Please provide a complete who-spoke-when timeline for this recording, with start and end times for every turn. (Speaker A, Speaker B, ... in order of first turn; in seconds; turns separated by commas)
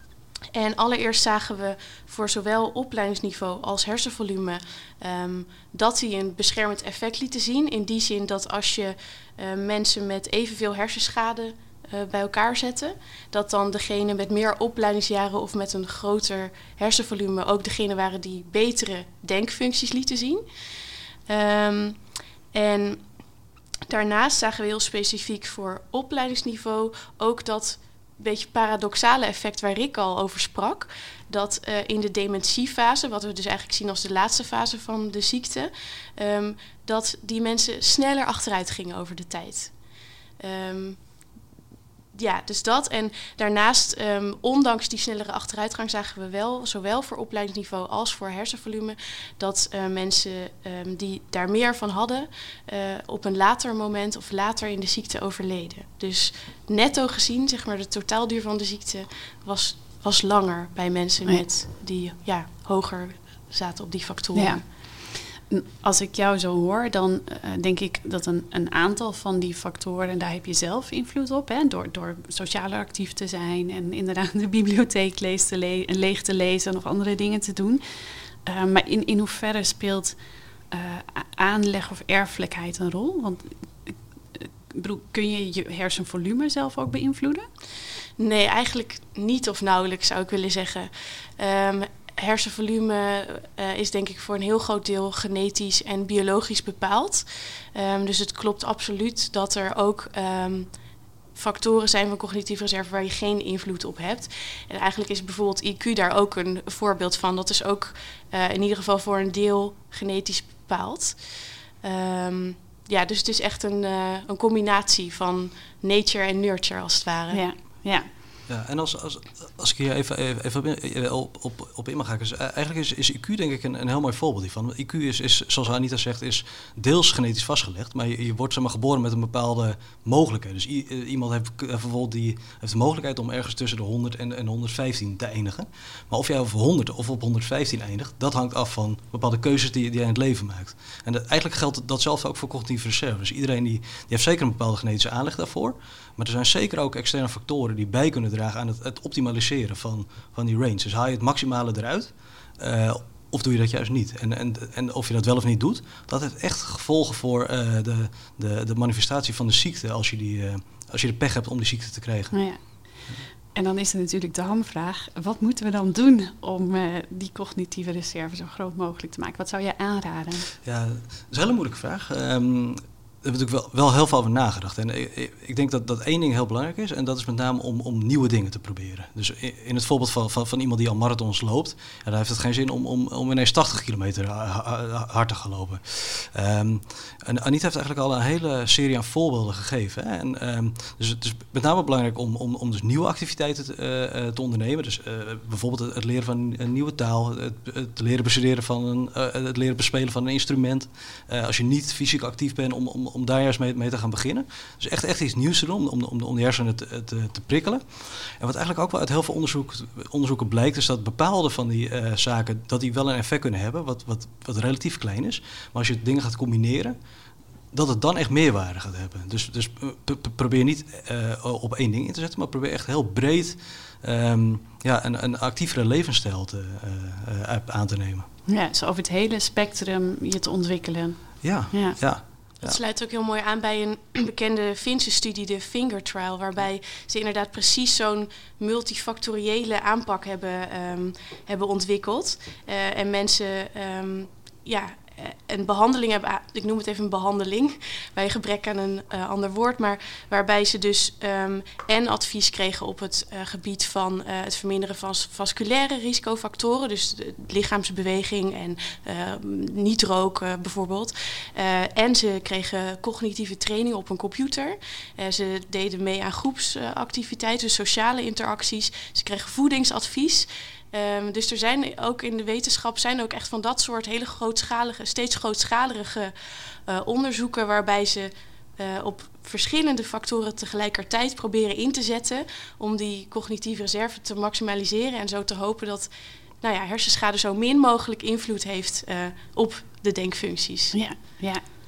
Speaker A: 0.5-20.4, Speaker A: 21.3-22.0, Speaker A: 22.5-23.0, Speaker A: 23.9-39.7, Speaker A: 40.4-41.0, Speaker A: 42.1-64.6, Speaker B: 64.3-77.8, Speaker B: 78.4-80.2, Speaker B: 80.7-87.5, Speaker A: 88.2-100.7, Speaker A: 101.3-111.2, Speaker A: 111.8-117.4, Speaker B: 117.3-118.1, Speaker C: 118.5-162.3, Speaker B: 162.3-162.8, Speaker B: 163.5-170.5, Speaker C: 170.6-216.9, Speaker C: 217.7-228.2, Speaker B: 228.5-232.0, Speaker C: 231.4-232.8, Speaker A: 232.6-276.3, Speaker A: 276.9-286.1, Speaker A: 286.6-290.9, Speaker B: 290.9-291.6